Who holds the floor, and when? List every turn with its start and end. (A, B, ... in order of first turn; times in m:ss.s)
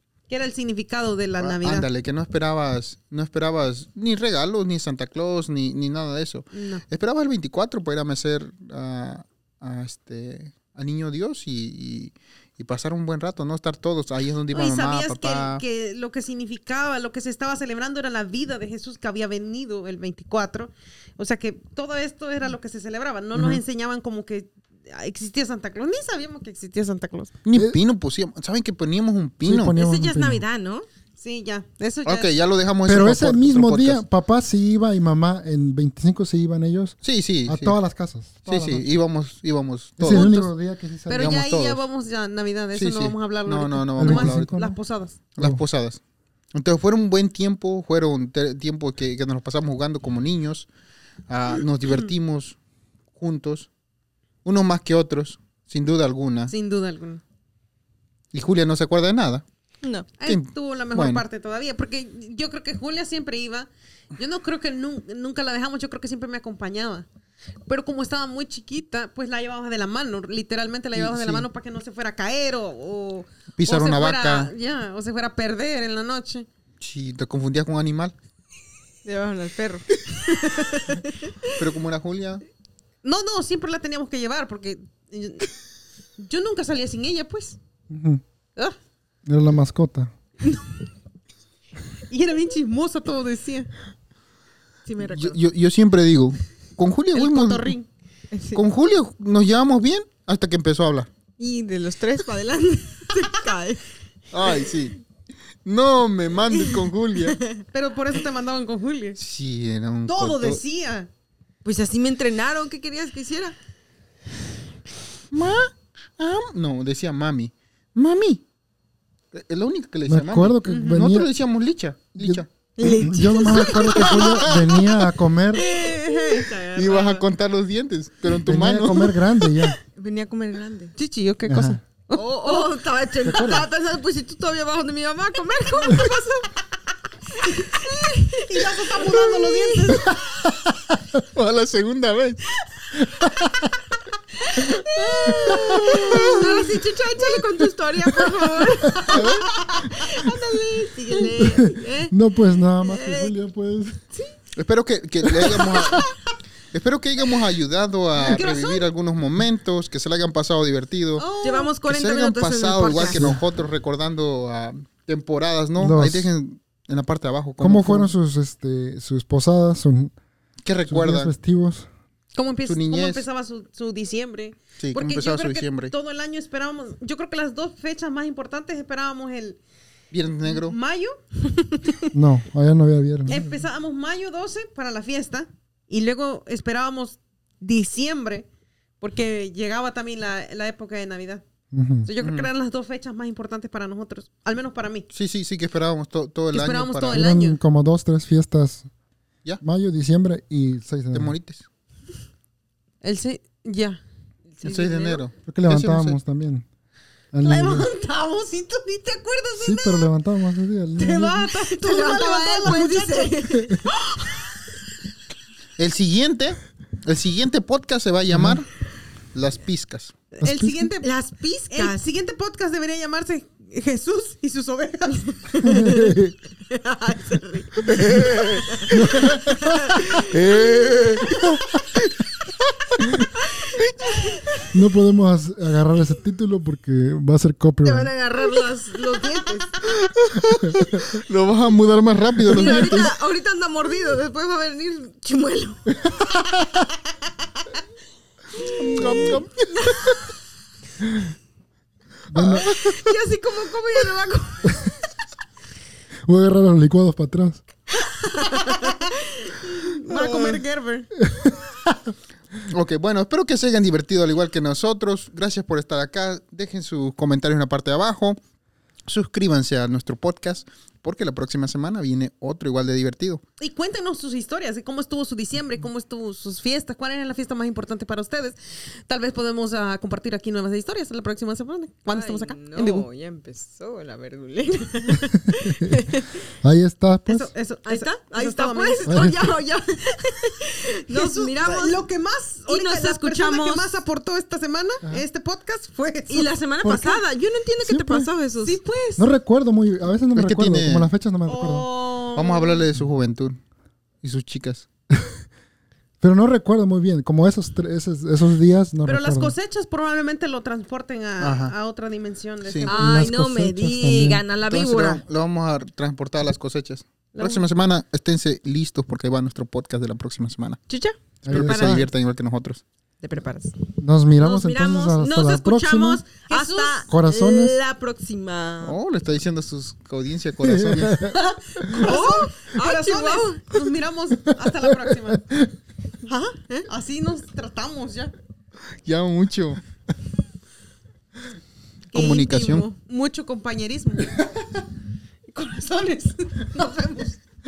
0:00.3-0:01.9 A
0:01.4-0:15.6 B
0:06.5-0:06.8 A
0:14.5-0:27.3 A
0:23.3-0:23.6 B
0:27.4-0:29.7 B
0:27.5-0:27.8 C
0:29.4-0:30.4 C
0:29.7-0:30.8 D
0:31.2-0:32.3 A
0:32.0-0:34.0 B
0:32.8-0:38.8 C
0:37.0-0:37.8 B
0:38.4-0:40.4 B
0:40.0-0:41.4 C
0:40.1-0:40.5 A
0:41.1-0:45.2 A
0:41.1-0:41.8 B
0:42.7-0:44.5 B
0:44.0-0:44.8 C
0:45.3-0:46.0 B
0:46.5-0:50.7 B
0:51.3-0:52.6 B
0:53.2-0:53.7 B
0:54.4-0:56.5 B
0:56.5-0:57.2 A
0:58.3-0:59.4 B
0:59.8-1:00.1 D
1:00.2-1:07.1 A
1:00.2-1:01.2 B
1:07.6-1:16.5 A
1:10.9-1:11.5 B
1:13.6-1:14.5 B
1:16.8-1:18.1 B
1:19.0-1:21.6 D
1:21.5-1:22.4 B
1:23.0-1:25.6 A
1:26.2-1:27.6 A
1:27.9-1:28.2 C
1:29.2-1:30.1 C
1:30.4-1:30.8 A
1:32.1-1:33.7 A
1:34.8-1:35.4 D
1:35.0-1:37.8 B
1:37.1-1:37.9 A
1:38.3-1:38.6 D
1:38.5-1:41.1 B
1:41.4-1:43.8 D
1:44.3-1:44.9 B
1:45.6-1:47.4 B
1:47.2-1:47.6 D
1:47.7-1:49.2 A
1:49.2-1:50.6 B
1:50.1-1:51.1 A
1:51.6-1:53.6 D
1:55.3-1:58.4 B
1:59.3-2:02.5 B
2:00.1-2:01.3 C
2:00.6-2:01.0 A
2:02.2-2:05.6 C
2:02.8-2:07.2 D
2:05.5-2:06.5 A
2:06.7-2:09.1 B
2:08.4-2:09.8 C
2:09.9-2:10.9 D
2:11.0-2:12.7 A
2:11.5-2:11.8 C
2:12.1-2:16.5 D
2:13.2-2:13.7 C
2:17.4-2:20.1 D
2:18.4-2:20.2 A
2:20.2-2:21.0 C
2:21.3-2:22.4 B
2:24.4-2:32.1 D
2:24.5-2:26.6 A
2:25.3-2:26.0 C
2:25.8-2:26.4 B
2:28.1-2:29.2 C
2:29.1-2:29.5 B
2:29.1-2:30.0 A
2:31.3-2:34.0 C
2:32.8-2:33.3 D
2:34.5-2:36.1 B
2:35.7-2:36.1 A
2:36.7-2:41.2 B
2:38.2-2:38.9 A
2:41.2-2:41.7 A
2:41.4-2:43.2 D
2:41.8-2:48.1 B
2:43.0-2:43.4 C
2:45.8-2:46.3 C
2:47.6-2:50.1 C
2:50.6-2:51.3 B
2:50.9-2:51.9 C
2:52.3-2:59.6 A
2:52.6-2:53.2 B
2:54.8-2:55.9 B
3:00.1-3:00.8 B
3:00.4-3:02.0 A
3:02.1-3:03.6 C
3:03.3-3:08.5 A
3:09.0-3:11.4 A
3:11.7-3:12.1 C
3:12.0-3:15.1 A
3:12.2-3:12.5 B
3:15.1-3:17.2 B
3:16.5-3:17.6 A
3:17.1-3:18.9 C
3:19.6-3:21.3 C
3:21.1-3:21.6 B
3:23.0-3:24.0 A
3:24.6-3:25.2 A
3:24.6-3:26.2 B
3:24.7-3:24.9 D
3:25.4-3:26.6 C
3:27.3-3:27.9 C
3:27.4-3:30.1 A
3:29.6-3:31.5 C
3:31.0-3:34.6 A
3:31.5-3:34.0 D
3:35.8-3:38.7 B
3:38.3-3:38.6 C
3:39.3-3:40.1 B
3:40.3-3:41.1 A
3:40.4-3:40.9 C
3:41.0-3:42.0 D
3:41.7-3:45.7 A
3:45.6-3:46.2 D
3:45.6-3:46.4 C
3:46.7-3:47.9 D
3:47.9-3:49.3 B
3:48.0-3:48.3 C
3:48.4-3:50.3 D
3:48.9-3:50.0 C
3:50.1-3:52.1 B
3:54.2-3:54.7 D
3:54.7-3:58.1 C
3:57.8-3:59.8 D
4:00.0-4:03.1 B
4:00.6-4:00.9 C
4:02.5-4:06.0 D
4:08.6-4:10.2 B
4:09.0-4:09.3 C
4:12.3-4:12.8 C
4:12.4-4:13.0 B
4:12.6-4:14.8 D
4:16.3-4:17.6 C
4:18.0-4:21.1 A
4:18.5-4:19.1 D
4:20.1-4:20.6 D
4:21.2-4:22.1 C
4:22.6-4:28.4 B
4:29.1-4:33.4 B
4:33.6-4:43.1 A
4:42.1-4:46.5 D
4:44.8-4:45.2 A
4:45.5-4:46.0 C
4:46.6-4:47.5 C
4:47.3-4:49.2 A
4:47.8-4:52.0 D
4:49.0-4:49.4 C
4:51.1-4:57.2 A
4:52.6-4:54.0 D
4:56.3-4:58.8 D
4:57.8-4:58.3 C
4:58.6-4:59.3 A
4:59.2-5:01.9 C
5:00.3-5:01.1 B
5:01.4-5:02.8 A
5:02.3-5:03.6 B
5:04.2-5:04.8 B
5:06.2-5:09.5 C
5:09.0-5:13.2 A
5:11.4-5:11.7 B
5:12.6-5:12.9 B
5:12.8-5:15.2 D
5:12.9-5:14.4 C
5:14.7-5:20.8 B
5:17.3-5:17.7 A
5:20.9-5:22.1 D
5:21.4-5:22.0 C
5:21.5-5:22.8 B
5:23.2-5:23.7 D
5:24.0-5:26.2 C
5:24.4-5:29.0 D
5:26.4-5:27.1 A
5:27.1-5:27.8 C
5:28.8-5:31.2 B
5:30.6-5:32.1 C
5:31.3-5:35.4 A
5:31.9-5:33.8 D
5:34.5-5:35.7 C
5:36.3-5:38.3 A
5:39.0-5:39.8 B
5:42.1-5:43.0 D
5:42.1-5:42.9 B
5:43.0-5:44.6 A
5:45.5-5:47.4 A